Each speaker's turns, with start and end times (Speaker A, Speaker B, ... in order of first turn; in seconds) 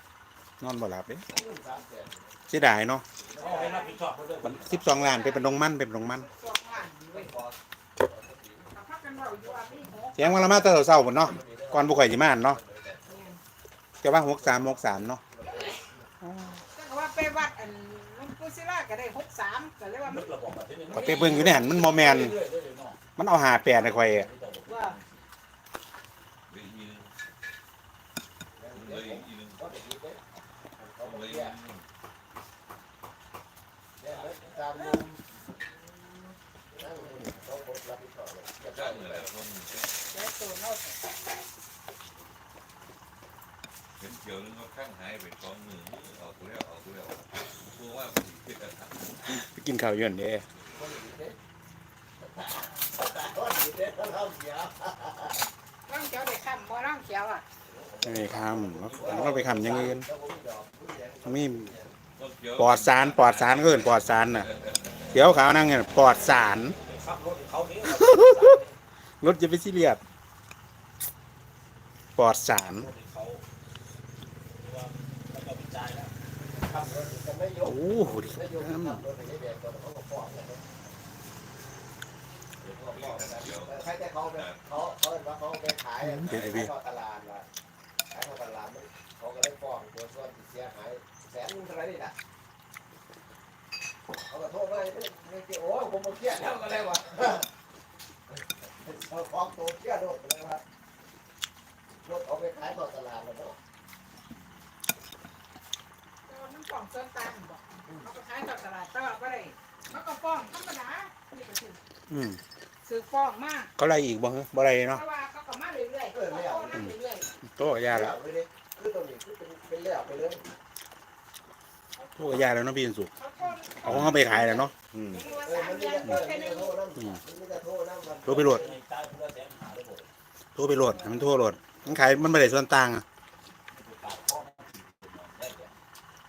Speaker A: 0.6-1.2, 2.5-3.0, 4.4-6.3, 10.2-12.6, 14.0-15.2, 16.2-16.6, 20.9-22.4, 23.2-24.3, 49.2-50.5, 58.0-60.1, 61.2-61.7, 62.5-64.5, 65.1-66.8, 67.8-68.6, 69.2-70.0, 72.2-72.9, 77.6-79.0, 86.0-86.7, 112.1-112.4, 113.8-115.0, 117.5-118.2, 122.1-123.1, 123.8-125.2, 128.2-128.6, 130.6-133.0
Speaker B: 1.3-2.4, 3.2-3.9, 7.0-8.7, 9.3-9.8, 10.9-13.3, 14.2-16.1, 28.6-30.2, 30.8-31.6, 34.0-35.2, 36.8-39.3, 50.7-51.4, 52.2-55.4, 58.0-61.9, 76.5-80.6, 82.6-87.5, 88.1-92.1, 94.3-97.5, 98.3-100.6, 102.0-103.5, 116.1-116.9, 117.9-120.4, 125.4-128.7
Speaker C: 3.4-5.0, 20.0-23.0, 23.6-25.2, 34.1-34.6, 36.7-37.4, 57.7-59.8, 66.3-68.7, 72.7-73.4, 74.6-76.1, 128.2-130.1, 133.7-135.7
Speaker D: 3.4-4.0, 4.9-7.4, 8.7-10.6, 13.0-13.4, 16.7-20.3, 24.6-25.0, 40.1-41.0, 55.9-57.4, 106.3-111.8, 112.8-113.7, 114.9-117.2, 123.1-126.8, 130.8-131.3
Speaker E: 26.5-27.1, 28.7-29.6, 31.0-31.8, 38.6-39.9, 44.0-49.2, 62.1-65.3, 82.8-84.7